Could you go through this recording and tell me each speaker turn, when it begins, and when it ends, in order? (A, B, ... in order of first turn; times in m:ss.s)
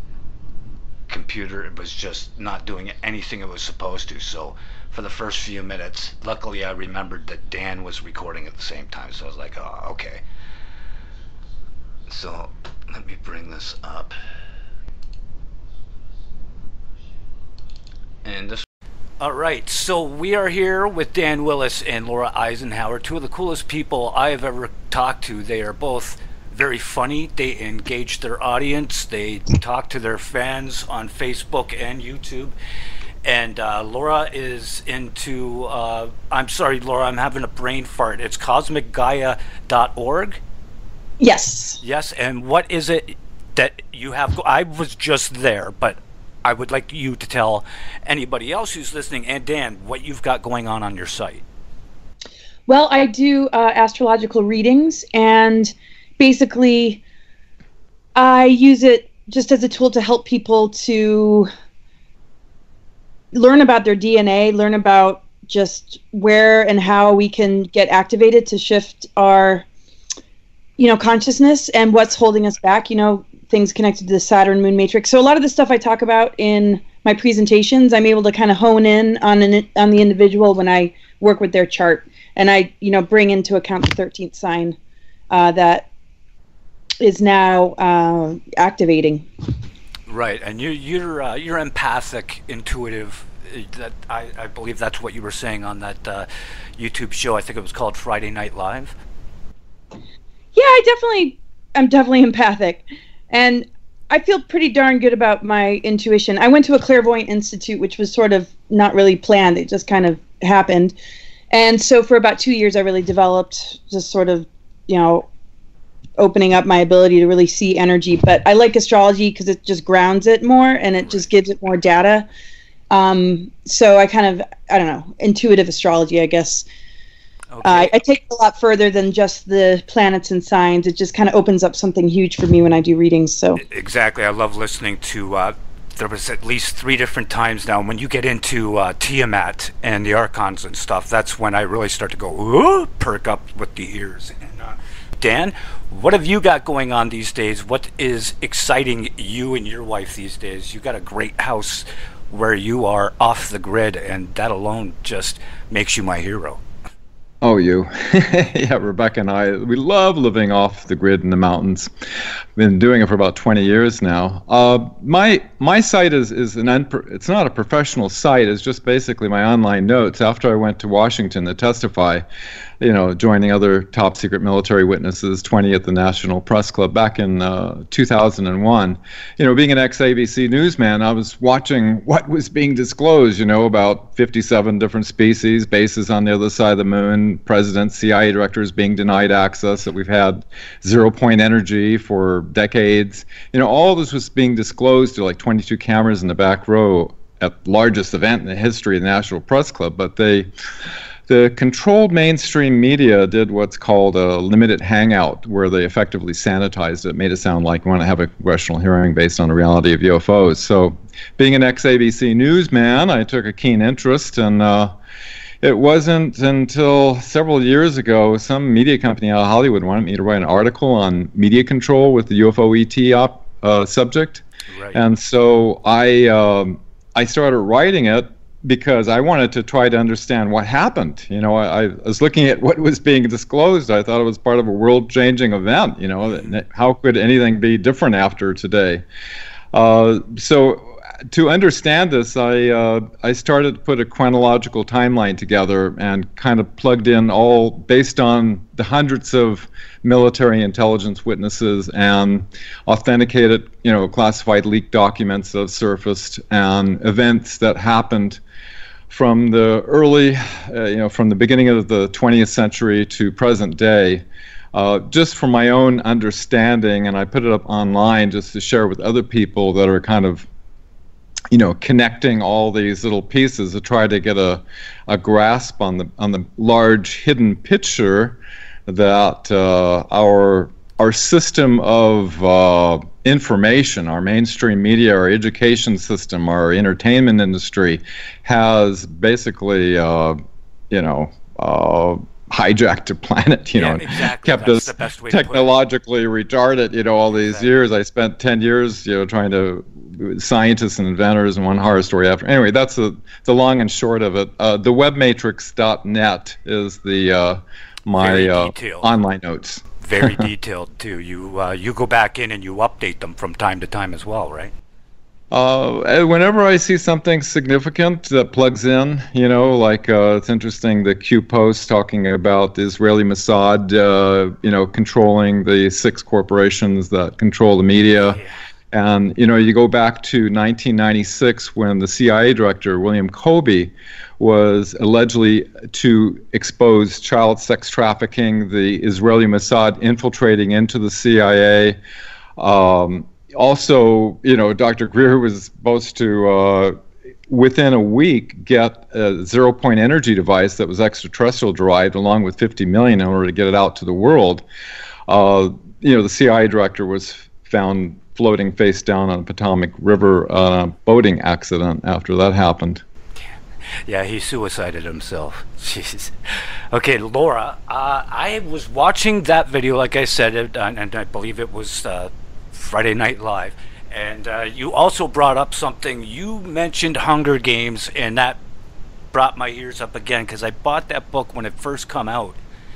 0:01.1-0:10.2 A
0:12.1-0:14.2 A
0:18.2-0:18.7 A
0:19.2-0:32.6 A
0:33.2-0:40.4 A
0:41.2-0:41.8 B
0:41.8-0:51.4 A
0:52.7-0:57.0 B
0:58.2-1:01.5 B
1:03.3-1:09.7 B
1:10.8-1:24.8 B
1:25.3-1:25.9 B
1:27.0-1:29.3 B
1:30.1-1:39.0 A
1:40.6-1:50.9 B
1:51.5-1:55.3 B
1:56.2-2:02.3 B
2:01.0-2:01.3 A
2:02.9-2:06.7 B
2:07.5-2:08.0 A
2:07.6-2:13.6 B
2:13.6-2:36.6 A
2:37.4-2:41.9 C
2:42.6-2:52.2 C
2:52.8-3:20.5 C
3:21.3-3:35.0 C
3:35.6-3:44.4 C
3:44.7-3:45.0 A
3:44.9-3:59.0 C
3:59.7-4:18.4 C
4:19.1-4:30.5 C
4:31.5-4:50.4 C
4:50.9-5:10.3 C
4:53.8-4:55.7 A
4:57.3-4:57.7 A
5:08.2-5:09.1 A
5:10.0-5:14.7 A
5:15.5-5:28.4 C
5:28.3-5:28.6 A
5:28.9-5:42.0 C
5:42.6-5:47.0 C
5:47.5-5:54.6 C
5:55.3-6:03.0 C
6:04.0-6:18.6 A
6:19.3-6:22.6 A